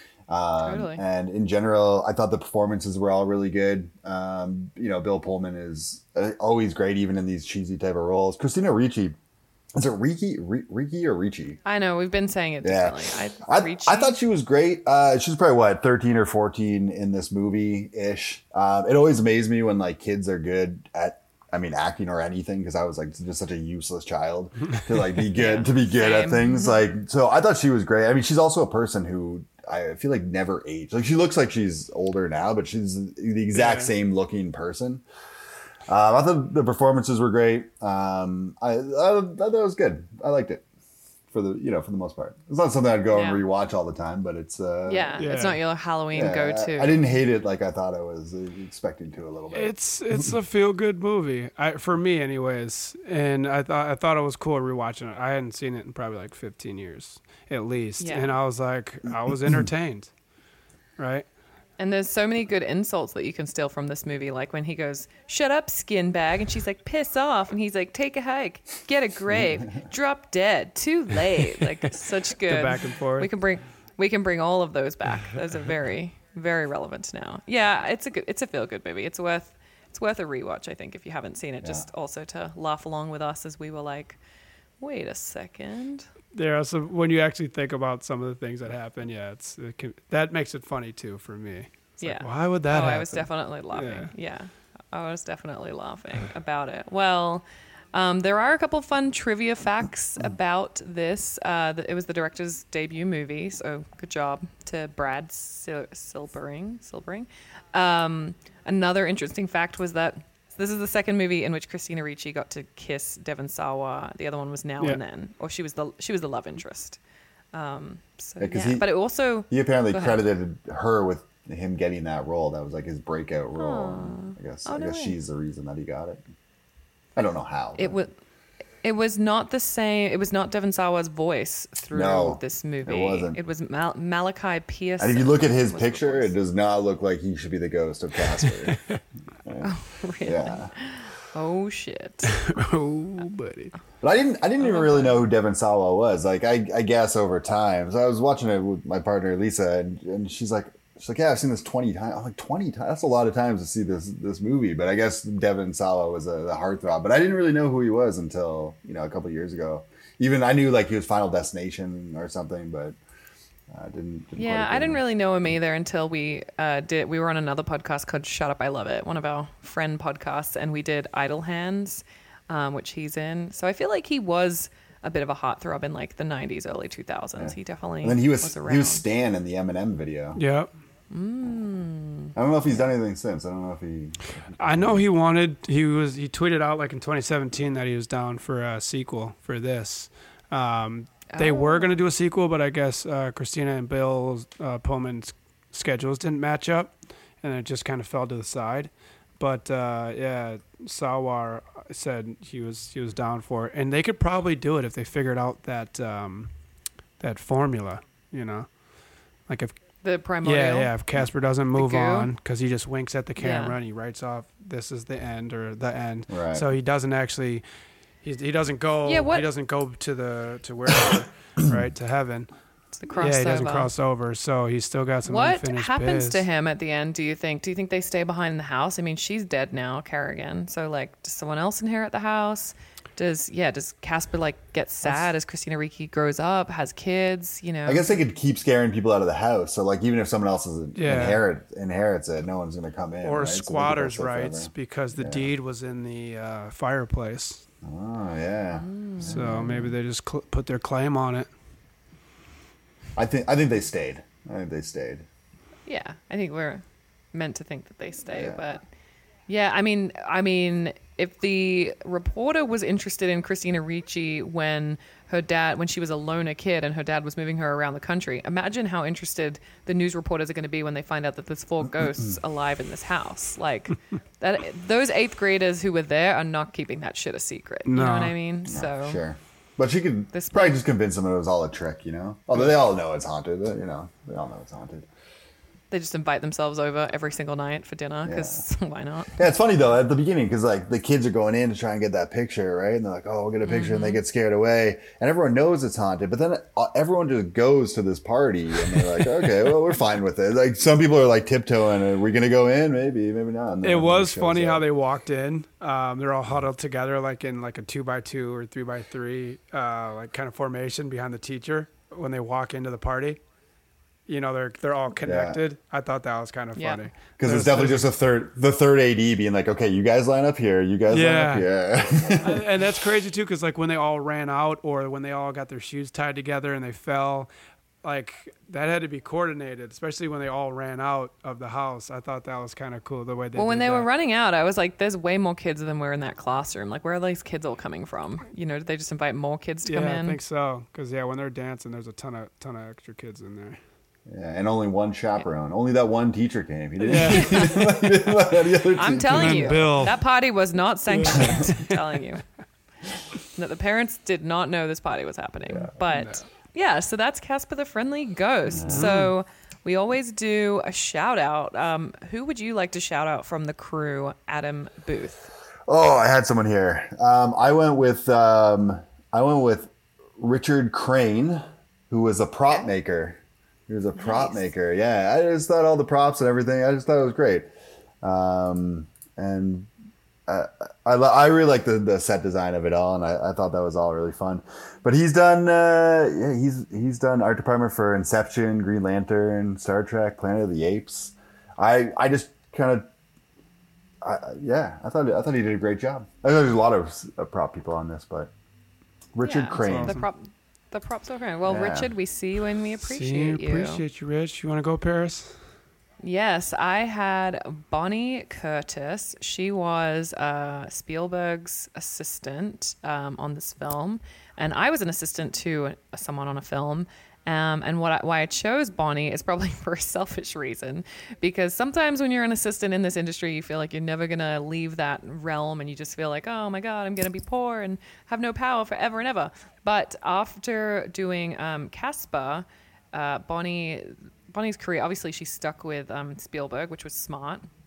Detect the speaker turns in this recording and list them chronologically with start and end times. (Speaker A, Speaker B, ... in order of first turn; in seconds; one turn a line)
Speaker A: 0.3-9.2
Speaker B: 0.6-1.0
Speaker A: 9.7-11.6
Speaker B: 11.6-14.1
Speaker A: 12.6-35.0
Speaker B: 25.3-26.8
Speaker C: 33.5-33.9
Speaker A: 35.9-40.6
Speaker A: 41.3-45.2
Speaker B: 43.1-43.4
Speaker B: 44.9-47.0
Speaker C: 45.2-45.6
Speaker A: 46.1-50.3
Speaker C: 49.5-60.1
Speaker B: 58.0-58.3
Speaker C: 61.0-61.3
Speaker B: 61.8-84.2
Speaker A: 69.3-69.8
Speaker C: 72.4-73.3
Speaker A: 81.6-81.9
Speaker B: 84.8-86.1
Speaker C: 86.3-94.1
Speaker B: 92.0-117.0
Speaker B: 117.5-120.2
Speaker A: 118.4-118.9
Speaker A: 119.5-126.2
Speaker B: 123.5-125.2
Speaker A: 127.2-128.0
Speaker B: 127.8-128.1
Speaker B: 128.8-136.3
Speaker A: 131.9-133.4
Speaker A: 135.0-138.8
Speaker C: 138.5-138.9
Speaker A: 139.4-140.7
Speaker B: 139.6-142.3
Speaker C: 142.3-143.7
Speaker A: 144.0-163.0
Speaker B: 144.6-145.2
Speaker A: 163.7-165.0
Speaker B: 164.4-179.0
Speaker A: 177.4-180.4
Speaker C: 180.3-180.7
Speaker B: 181.1-182.3
Speaker A: 182.3-185.0
Speaker C: 184.6-206.5
Speaker B: 191.3-191.9
Speaker C: 207.2-208.8
Speaker C: 209.5-209.8
Speaker B: 210.0-210.9
Speaker C: 210.4-217.6
Speaker B: 211.7-212.3
Speaker B: 213.4-213.7
Speaker A: 216.3-216.7
Speaker C: 218.2-222.5
Speaker B: 219.0-219.4
Speaker B: 222.9-223.9
Speaker C: 223.1-226.4
Speaker B: 225.2-238.1
Speaker A: 237.8-245.5
Speaker C: 240.9-241.4
Speaker C: 243.2-247.6
Speaker A: 247.8-249.9
Speaker B: 248.8-249.6
Speaker C: 249.2-251.5
Speaker A: 253.2-255.2
Speaker B: 255.9-258.8
Speaker A: 258.3-258.7
Speaker B: 259.5-279.2
Speaker C: 277.9-278.3
Speaker A: 278.7-285.1
Speaker B: 280.3-280.8
Speaker B: 285.9-289.4
Speaker A: 288.2-288.6
Speaker A: 289.3-304.8
Speaker B: 293.6-294.2
Speaker C: 303.8-313.4
Speaker C: 314.3-318.1
Speaker A: 315.2-315.6
Speaker B: 316.8-317.1
Speaker A: 317.4-322.6
Speaker C: 321.1-321.7
Speaker C: 322.4-327.5
Speaker C: 328.0-334.1
Speaker B: 333.6-340.4
Speaker C: 339.8-343.8
Speaker A: 344.3-350.1
Speaker C: 347.0-347.9
Speaker B: 347.3-347.8
Speaker B: 348.9-352.4
Speaker C: 349.3-350.1
Speaker C: 351.1-352.0
Speaker B: 353.5-365.5
Speaker C: 356.1-356.4
Speaker A: 358.7-359.1
Speaker C: 358.9-359.3
Speaker A: 365.9-377.6
Speaker B: 374.2-374.6
Speaker A: 378.2-379.9
Speaker A: 380.5-393.1
Speaker A: 394.2-398.5
Speaker A: 399.3-400.2
Speaker B: 399.4-404.0
Speaker C: 399.8-400.2
Speaker A: 401.6-402.1
Speaker C: 403.0-405.6
Speaker B: 406.2-437.7